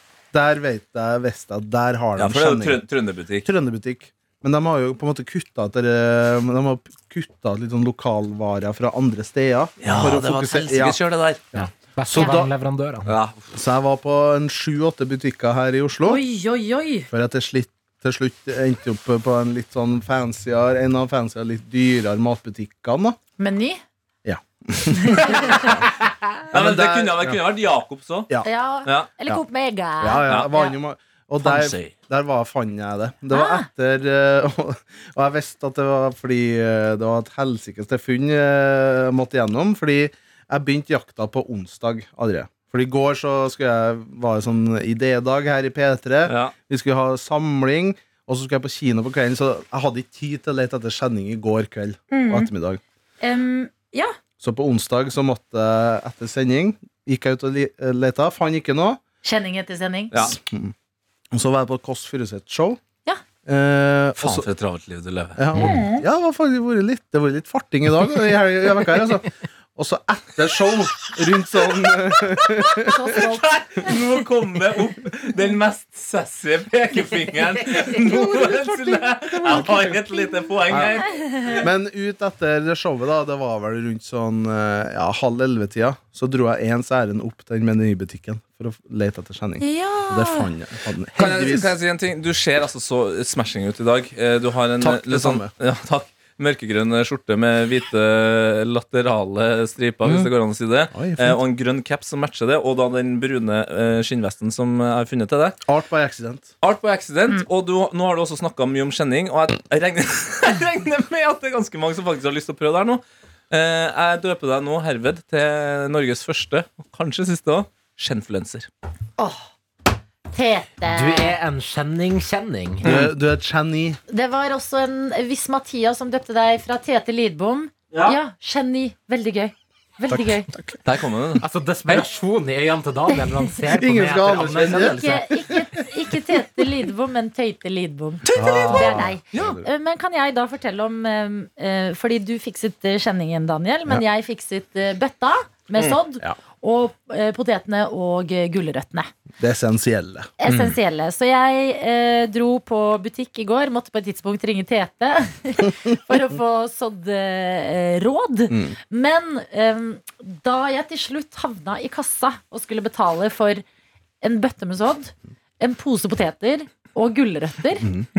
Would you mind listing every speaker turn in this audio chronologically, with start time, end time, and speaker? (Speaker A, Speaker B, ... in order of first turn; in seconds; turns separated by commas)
Speaker A: 0.3-2.8, Speaker B: 2.2-3.5, Speaker A: 3.4-11.0, Speaker B: 9.8-11.4, Speaker A: 11.5-12.5, Speaker C: 11.5-13.1, Speaker B: 13.1-13.4, Speaker A: 13.5-16.2, Speaker D: 16.0-17.1, Speaker A: 17.1-23.2, Speaker D: 23.4-23.8, Speaker A: 24.2-26.0, Speaker D: 25.1-25.7, Speaker B: 25.2-25.6, Speaker A: 26.5-27.4, Speaker B: 26.5-28.3, Speaker D: 28.4-30.7, Speaker B: 28.8-29.1, Speaker A: 30.0-52.8, Speaker B: 30.2-30.5, Speaker B: 31.4-31.9, Speaker D: 33.3-33.6, Speaker B: 46.2-46.5, Speaker D: 52.1-52.5, Speaker D: 53.2-54.1, Speaker A: 54.4-59.0, Speaker D: 59.2-60.3, Speaker A: 60.2-60.7, Speaker A: 61.3-62.8, Speaker A: 63.5-64.5, Speaker B: 64.2-65.4, Speaker A: 65.3-73.2, Speaker D: 65.5-66.0, Speaker D: 72.8-74.0, Speaker B: 73.1-81.6, Speaker A: 77.8-91.7, Speaker D: 89.6-90.5, Speaker B: 91.2-105.6, Speaker A: 94.8-95.5, Speaker A: 100.0-100.3, Speaker A: 100.9-101.4, Speaker A: 105.7-106.5, Speaker B: 106.6-118.7, Speaker D: 119.2-119.5, Speaker D: 120.3-121.3, Speaker C: 120.9-122.8, Speaker B: 122.8-123.1, Speaker A: 122.8-124.0, Speaker D: 124.1-130.5, Speaker B: 127.9-128.2, Speaker A: 130.1-130.8, Speaker B: 130.8-132.1, Speaker C: 131.4-135.3, Speaker A: 133.7-135.8, Speaker D: 134.7-149.1, Speaker B: 138.2-139.6, Speaker A: 138.3-139.7, Speaker A: 149.4-150.3, Speaker D: 150.4-163.6, Speaker B: 150.4-150.8, Speaker D: 164.2-167.9